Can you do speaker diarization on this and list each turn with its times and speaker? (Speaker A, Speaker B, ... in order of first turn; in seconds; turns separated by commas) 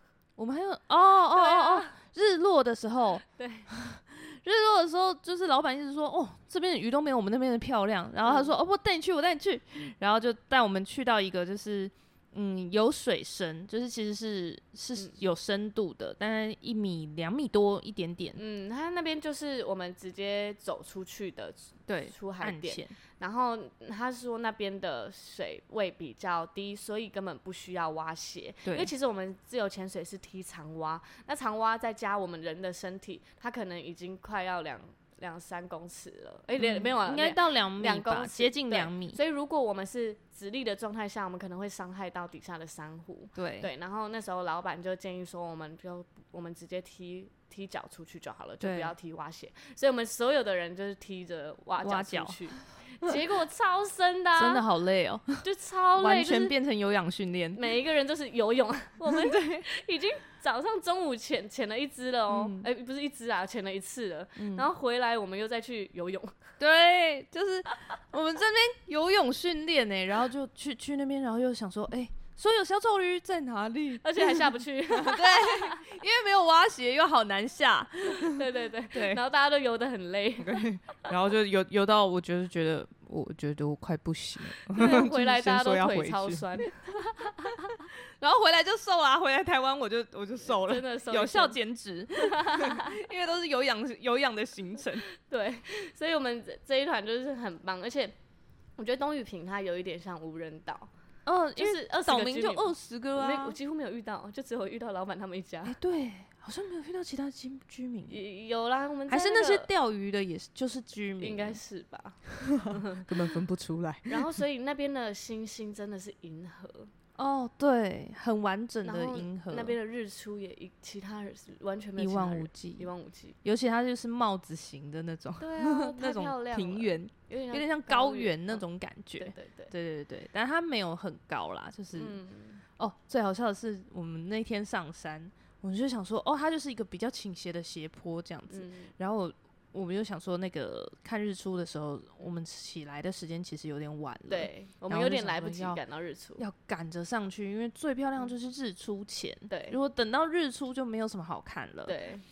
Speaker A: 0.4-18.4, Speaker B: 1.3-1.9, Speaker B: 3.3-3.7, Speaker B: 8.2-8.5, Speaker B: 18.4-54.6, Speaker A: 21.9-22.9, Speaker A: 28.7-28.9, Speaker A: 36.6-39.2, Speaker A: 43.4-43.7, Speaker A: 48.6-48.9, Speaker A: 51.8-53.2, Speaker A: 54.4-55.5, Speaker B: 55.4-56.5, Speaker A: 56.0-57.6, Speaker B: 57.6-66.3, Speaker A: 59.1-59.7, Speaker A: 62.3-62.7, Speaker A: 64.4-64.7, Speaker A: 66.6-79.2, Speaker B: 74.0-75.8, Speaker B: 78.3-80.6, Speaker A: 80.4-86.7, Speaker B: 84.8-87.7, Speaker A: 88.2-95.0, Speaker B: 90.4-91.6, Speaker B: 92.2-92.9, Speaker B: 95.2-98.2, Speaker B: 98.8-100.9, Speaker A: 101.3-103.6, Speaker B: 101.6-105.8, Speaker A: 105.7-108.2, Speaker B: 108.1-109.7, Speaker A: 109.1-111.6, Speaker B: 111.2-113.1, Speaker A: 112.6-114.4, Speaker B: 114.1-116.9, Speaker A: 117.2-119.8, Speaker B: 118.8-123.4, Speaker A: 122.0-122.9, Speaker A: 123.4-132.2, Speaker B: 125.4-128.6, Speaker B: 129.2-129.7, Speaker B: 131.9-132.6, Speaker A: 132.8-145.8, Speaker B: 138.5-138.9, Speaker B: 144.3-146.4, Speaker A: 146.4-152.0, Speaker B: 149.5-149.8, Speaker B: 151.9-152.2